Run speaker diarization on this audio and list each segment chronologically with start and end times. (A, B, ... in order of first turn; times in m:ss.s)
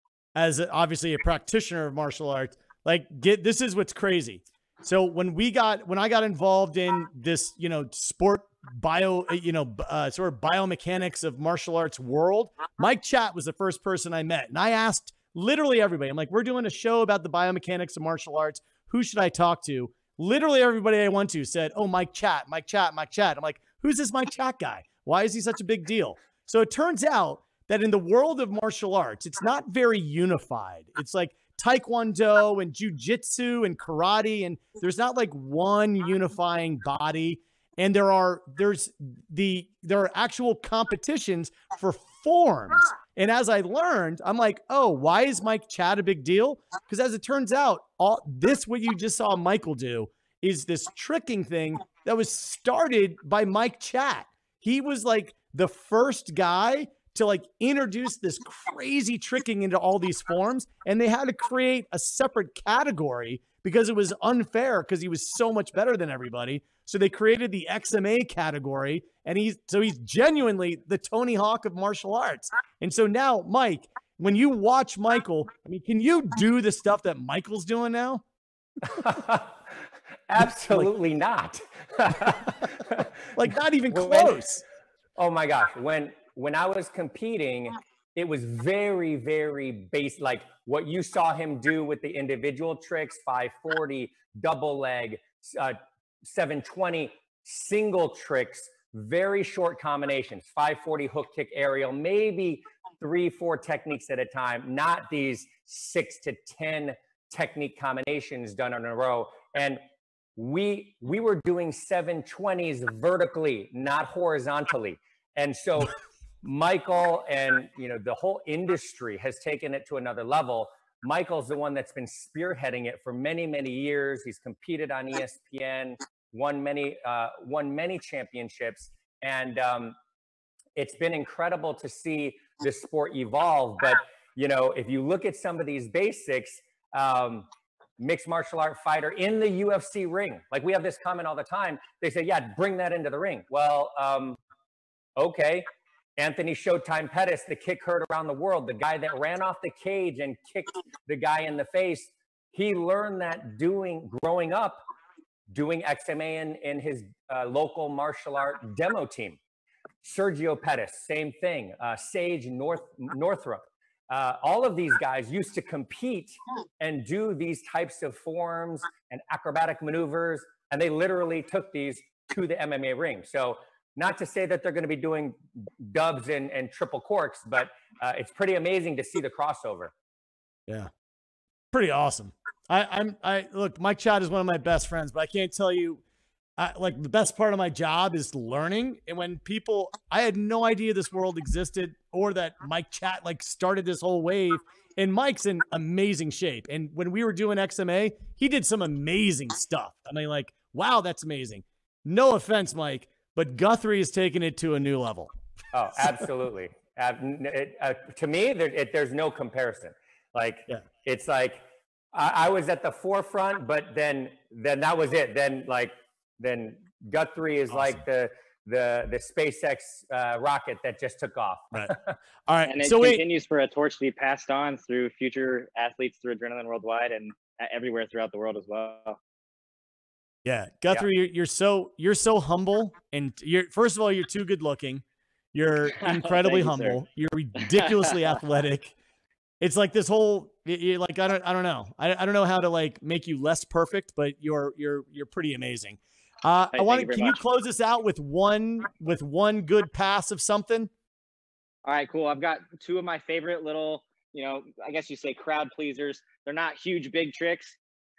0:00.4-1:18.2 A
1:18.9-1:19.6 B
1:20.3-1:24.4 B
1:20.4-1:20.9 A
1:23.4-1:24.6 A
1:25.2-1:49.8 B
1:50.4-2:10.0 B
2:10.8-2:17.5 B
2:18.0-2:24.4 B
2:25.2-2:25.7 B
2:26.2-2:34.8 B
2:35.5-2:39.4 B
2:40.0-2:59.9 B
3:01.7-3:06.0 A
3:06.6-3:25.3 A
3:25.7-3:42.2 B
3:42.5-3:43.2 A
3:42.6-3:49.2 C
3:50.4-3:58.9 A
3:56.0-3:57.0 C
3:57.6-3:58.4 C
3:59.6-4:10.9 A
4:06.7-4:07.4 C
4:11.8-4:17.8 C